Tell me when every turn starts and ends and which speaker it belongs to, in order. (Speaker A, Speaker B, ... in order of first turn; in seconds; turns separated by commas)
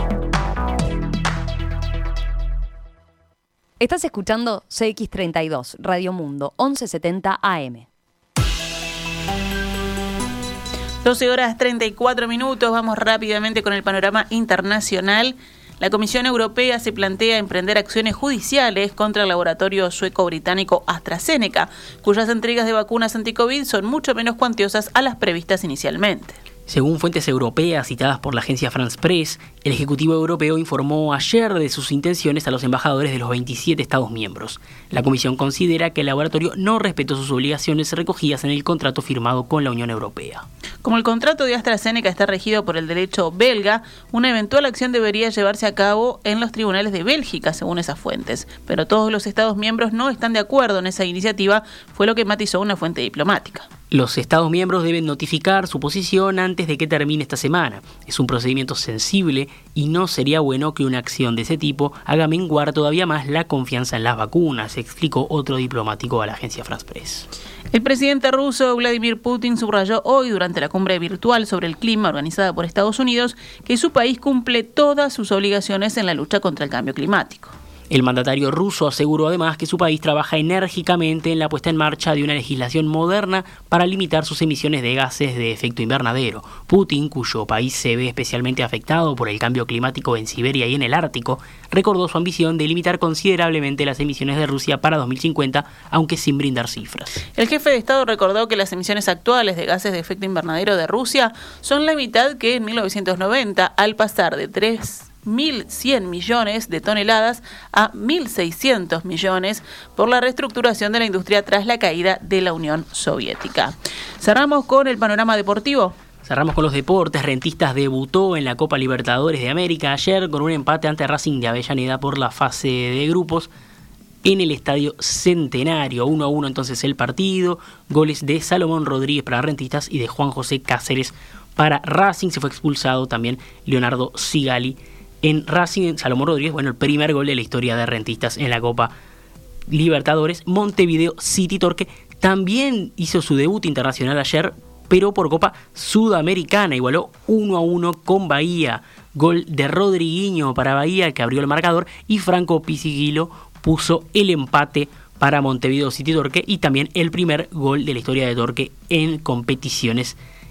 Speaker A: 3.8-7.9, Speaker B: 11.0-26.4, Speaker C: 26.7-40.5, Speaker B: 40.8-53.7, Speaker C: 53.9-67.3, Speaker B: 67.7-77.5, Speaker C: 77.9-97.2, Speaker B: 97.3-115.9, Speaker C: 116.2-123.5, Speaker C: 124.2-138.9, Speaker C: 139.7-160.2